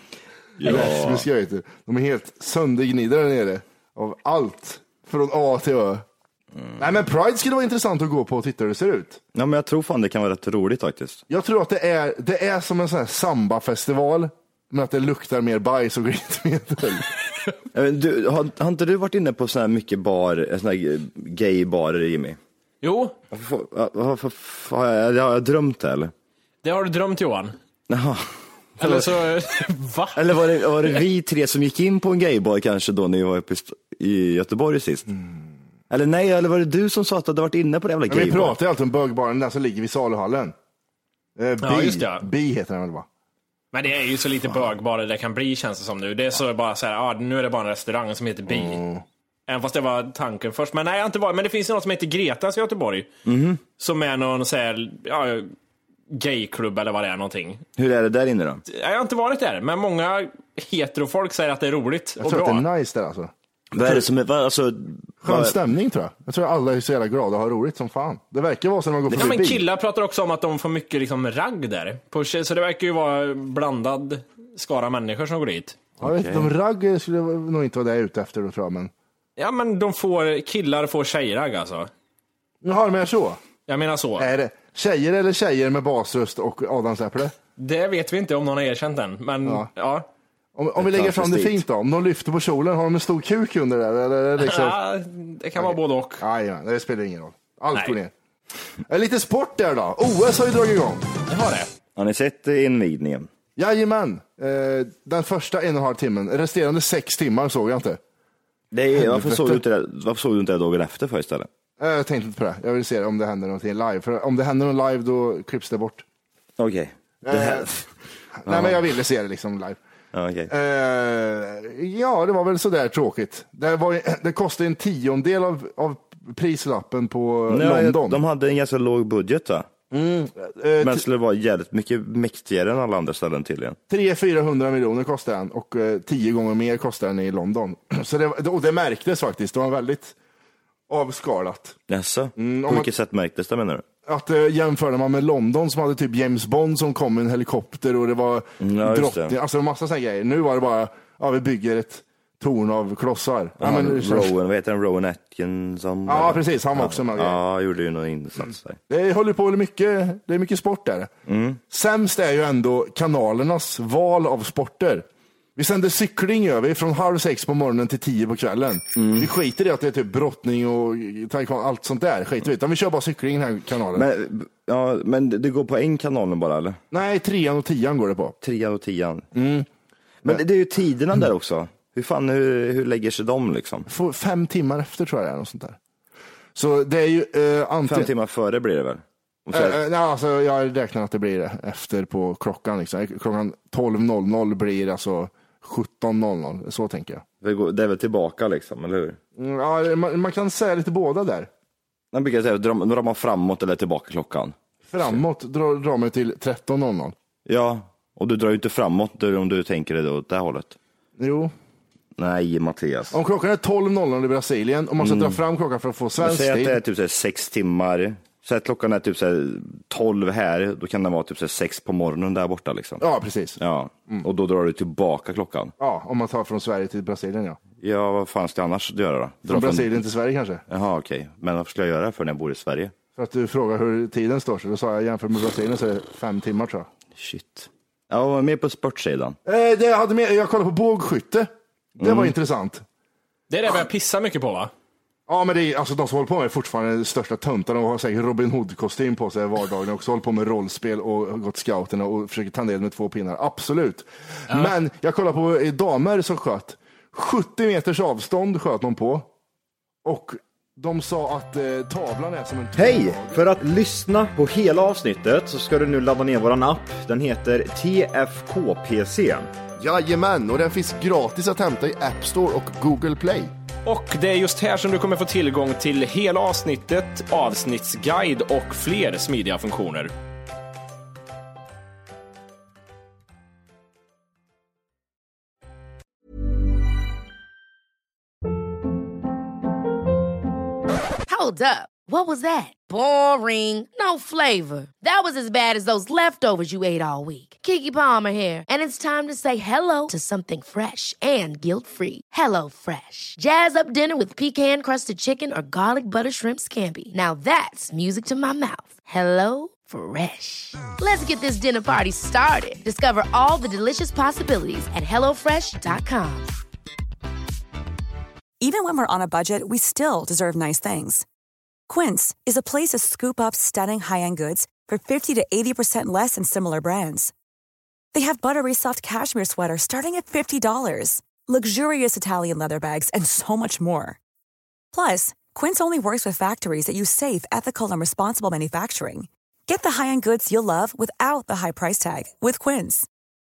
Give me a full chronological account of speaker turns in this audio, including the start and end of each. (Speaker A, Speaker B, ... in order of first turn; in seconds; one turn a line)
Speaker A: 0.6-1.3
Speaker B: 0.6-6.0
Speaker B: 6.8-9.2
Speaker A: 9.3-11.2
Speaker B: 11.3-17.1
Speaker A: 17.7-22.4
Speaker C: 22.8-23.1
Speaker A: 23.3-26.1
Speaker C: 26.6-27.6
Speaker A: 27.9-28.2
Speaker A: 28.8-29.1
Speaker C: 28.8-31.0
Speaker A: 30.1-35.1
Speaker B: 35.1-35.4
Speaker A: 35.9-38.6
Speaker B: 38.1-40.5
Speaker B: 41.4-43.0
Speaker C: 41.6-42.3
Speaker C: 43.7-48.8
Speaker B: 48.5-49.0
Speaker C: 49.5-53.1
Speaker A: 53.2-53.6
Speaker C: 53.8-55.5
Speaker C: 56.1-57.6
Speaker A: 57.8-58.6
Speaker C: 58.7-62.6
Speaker B: 62.2-64.0
Speaker A: 63.7-65.5
Speaker B: 65.2-69.6
Speaker C: 69.1-75.8
Speaker A: 76.0-76.5
Speaker B: 76.0-78.9
Speaker C: 79.4-81.9
Speaker B: 82.6-83.4
Speaker C: 83.7-84.3
Speaker B: 84.2-87.3
Speaker C: 87.6-90.0
Speaker B: 90.5-94.8
Speaker A: 90.8-91.6
Speaker C: 94.4-96.2
Speaker B: 95.6-98.1
Speaker B: 98.9-101.0
Speaker C: 101.3-101.7
Speaker A: 102.0-103.3
Speaker B: 103.5-108.0
Speaker A: 108.7-111.5
Speaker B: 109.0-109.6
Speaker B: 111.8-116.0
Speaker A: 116.6-117.8
Speaker B: 117.2-117.7
Speaker B: 118.4-119.8
Speaker A: 118.5-118.8
Speaker A: 120.1-120.5
Speaker B: 120.5-128.2
Speaker A: 127.5-129.7
Speaker B: 129.9-131.0
Speaker A: 130.8-133.8
Speaker B: 133.9-140.1
Speaker B: 140.9-141.8
Speaker A: 141.9-143.8
Speaker B: 142.4-142.9
Speaker B: 144.0-154.3
Speaker A: 148.6-149.3
Speaker A: 153.6-158.8
Speaker B: 156.1-157.4
Speaker B: 158.9-161.1
Speaker A: 161.2-161.6
Speaker B: 161.7-165.0
Speaker B: 165.6-174.0
Speaker A: 169.0-169.3
Speaker A: 173.9-176.8
Speaker B: 176.9-178.3
Speaker A: 178.4-179.3
Speaker B: 179.3-179.7
Speaker A: 180.2-183.9
Speaker B: 183.9-185.8
Speaker B: 186.5-188.1
Speaker A: 187.8-189.8
Speaker B: 189.5-197.2
Speaker A: 197.4-199.2
Speaker B: 199.4-201.5
Speaker A: 202.1-205.2
Speaker B: 204.9-207.1
Speaker A: 207.4-210.8
Speaker B: 211.2-211.5
Speaker A: 212.2-213.2
Speaker B: 213.1-216.8
Speaker A: 215.0-215.4
Speaker A: 216.2-223.0
Speaker B: 223.0-223.6
Speaker A: 223.6-225.7
Speaker B: 225.8-227.6
Speaker A: 227.8-230.0
Speaker B: 229.5-230.6
Speaker A: 230.7-232.9
Speaker B: 233.2-236.9
Speaker A: 237.1-239.4
Speaker B: 239.4-242.8
Speaker A: 242.0-242.3
Speaker C: 243.5-244.7
Speaker B: 245.3-259.3
Speaker B: 260.0-263.4
Speaker D: 262.7-269.5
Speaker B: 269.8-273.5
Speaker C: 273.9-280.1
Speaker E: 291.3-316.5
Speaker F: 318.6-321.2
Speaker F: 321.9-327.3
Speaker F: 328.1-334.2
Speaker F: 334.9-343.1